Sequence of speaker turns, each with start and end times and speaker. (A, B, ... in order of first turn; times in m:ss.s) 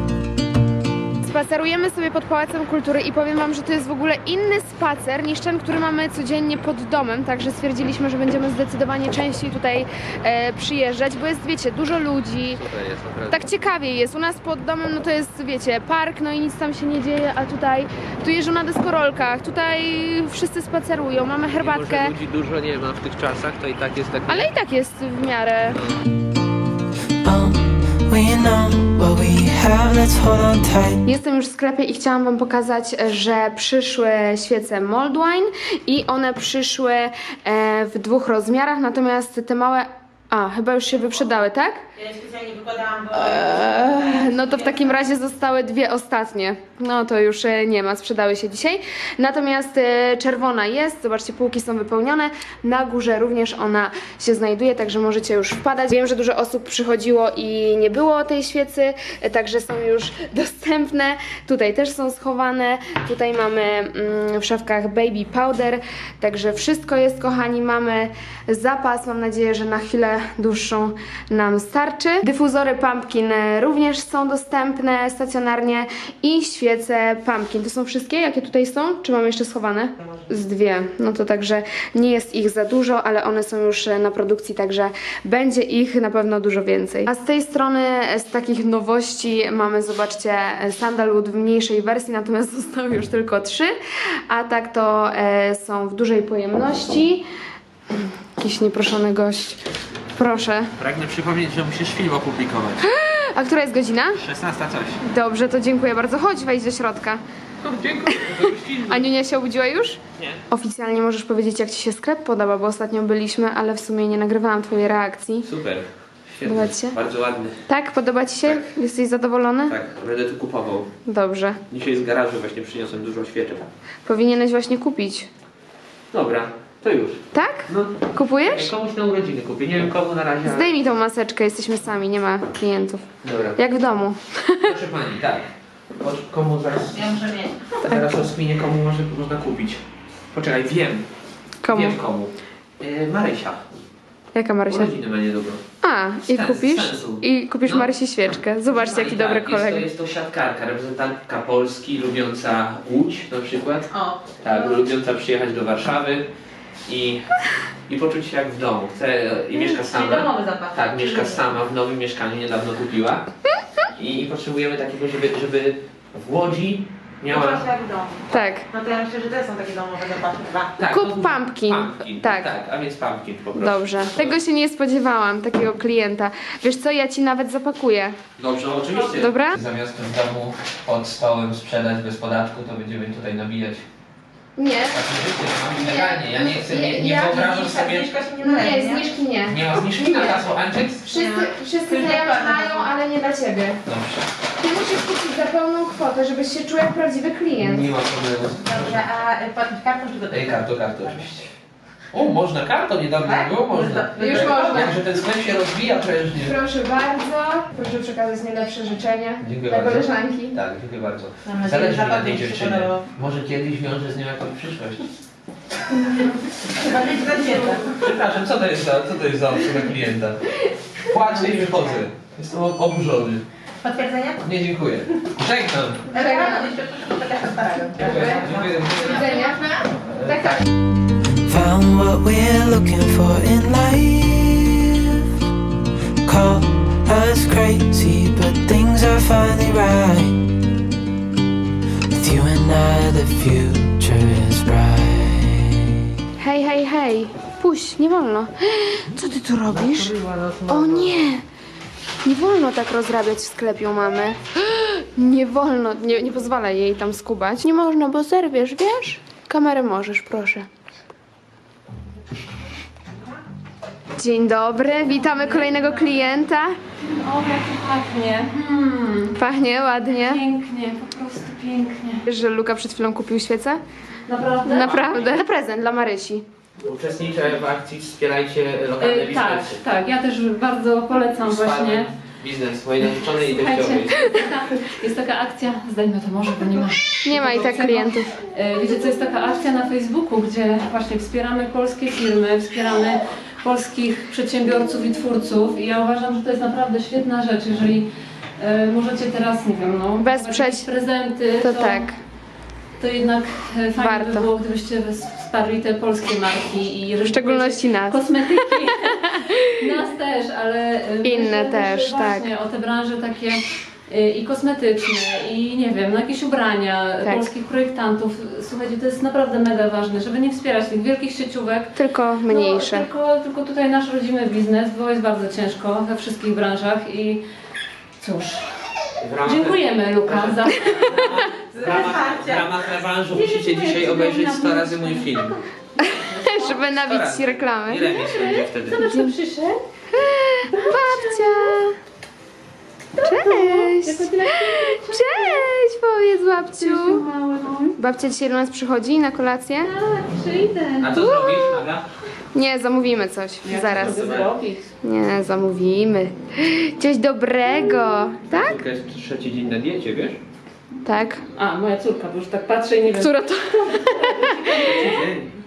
0:01.2-0:12.6 A
0:12.5-0:13.5 B
0:13.3-0:22.1 A
0:21.6-0:24.5 B
0:24.3-0:25.8 A
0:27.2-0:31.0 C
0:31.0-0:41.8 A
0:42.0-0:45.0 D
0:43.1-1:33.7 A
1:34.3-1:37.2 A
1:37.9-1:39.6 A
1:40.2-1:40.7 A
1:40.8-1:42.9 B
1:42.8-1:44.2 A
1:44.2-1:45.0 B
1:45.0-1:47.2 A
1:47.6-1:49.1 B
1:48.1-1:55.5 A
1:50.2-1:50.4 B
1:55.4-1:57.7 B
1:56.4-1:57.0 A
1:57.7-1:59.8 A
1:59.7-2:00.9 B
2:01.1-2:01.6 A
2:01.7-2:03.7 B
2:04.0-2:05.3 A
2:06.1-2:10.7 B
2:07.3-2:08.7 A
2:10.4-2:14.8 A
2:13.2-2:13.6 B
2:14.7-2:21.1 B
2:17.0-2:17.7 D
2:17.8-2:18.2 A
2:21.6-2:22.0 A
2:21.7-2:23.6 B
2:24.4-2:24.9 A
2:24.7-2:25.6 B
2:25.8-2:29.9 A
2:26.2-2:27.9 B
2:28.8-2:33.9 B
2:33.9-2:34.8 D
2:34.4-2:36.3 B
2:36.9-2:37.3 B
2:37.9-2:43.3 B
2:39.6-2:41.5 D
2:44.0-2:47.7 B
2:47.3-2:50.8 D
2:48.3-2:48.7 A
2:50.8-2:54.4 B
2:50.9-2:52.5 A
2:53.6-2:58.2 A
2:58.4-3:03.8 B
2:58.9-2:59.6 A
3:04.6-3:05.0 A
3:04.9-3:08.2 B
3:05.8-3:07.6 A
3:07.5-3:09.1 D
3:08.4-3:10.4 A
3:09.5-3:11.1 B
3:11.0-3:13.8 A
3:11.1-3:12.9 D
3:13.9-3:14.3 B
3:14.6-3:17.9 A
3:17.6-3:19.2 B
3:18.6-3:21.3 D
3:20.3-3:21.6 B
3:22.1-3:26.6 B
3:23.2-3:24.8 D
3:24.2-3:25.0 A
3:26.4-3:30.6 A
3:29.4-3:35.1 B
3:31.4-3:33.0 D
3:36.7-3:38.1 D
3:37.9-3:40.4 B
3:41.0-3:43.4 B
3:41.3-3:42.0 D
3:43.8-3:44.4 D
3:44.4-3:46.1 B
3:46.1-3:49.9 D
3:46.1-3:46.7 A
3:48.0-3:49.4 B
3:48.9-3:49.7 A
3:50.0-3:50.6 B
3:50.3-3:50.6 A
3:51.4-3:55.3 C
3:56.2-4:00.4 C
4:02.1-4:05.9 C
4:06.4-4:10.2 A
4:09.7-4:11.3 B
4:10.7-4:11.4 A
4:12.2-4:20.7 A
4:24.2-4:26.8 A
4:25.1-4:26.4 E
4:27.0-4:29.4 E
4:29.4-4:30.4 A
4:30.1-4:32.2 E
4:32.3-4:33.8 A
4:34.3-4:35.1 E
4:34.6-4:36.4 A
4:34.8-4:35.4 B
4:36.8-4:39.8 B
4:39.0-4:42.1 E
4:41.4-4:44.4 B
4:43.1-4:58.1 E
4:47.2-4:48.4 A
4:58.6-5:02.1 E
5:00.2-5:00.9 A
5:01.6-5:02.2 A
5:03.0-5:21.9 E
5:04.0-5:04.5 A
5:07.3-5:09.7 A
5:11.2-5:12.5 A
5:17.2-5:17.5 A
5:22.0-5:23.1 A
5:22.5-5:27.4 E
5:28.2-5:28.9 E
5:29.2-5:35.5 B
5:29.4-5:32.1 E
5:31.8-5:32.7 D
5:33.3-5:36.9 E
5:36.0-5:38.2 A
5:37.0-5:39.0 B
5:38.9-5:39.8 E
5:39.0-5:39.3 A
5:40.1-5:42.0 A
5:40.7-5:41.8 E
5:43.2-5:45.7 E
5:43.2-5:47.2 A
5:46.8-5:48.0 E
5:48.0-5:49.9 A
5:49.8-5:51.4 E
5:51.0-5:52.1 B
5:51.1-5:51.8 A
5:52.5-5:54.4 A
5:53.6-5:54.8 E
5:53.9-5:54.5 B
5:55.0-5:58.8 A
5:58.5-6:00.4 B
6:01.0-6:01.4 A
6:01.5-6:05.2 E
6:03.1-6:04.8 A
6:04.8-6:05.6 B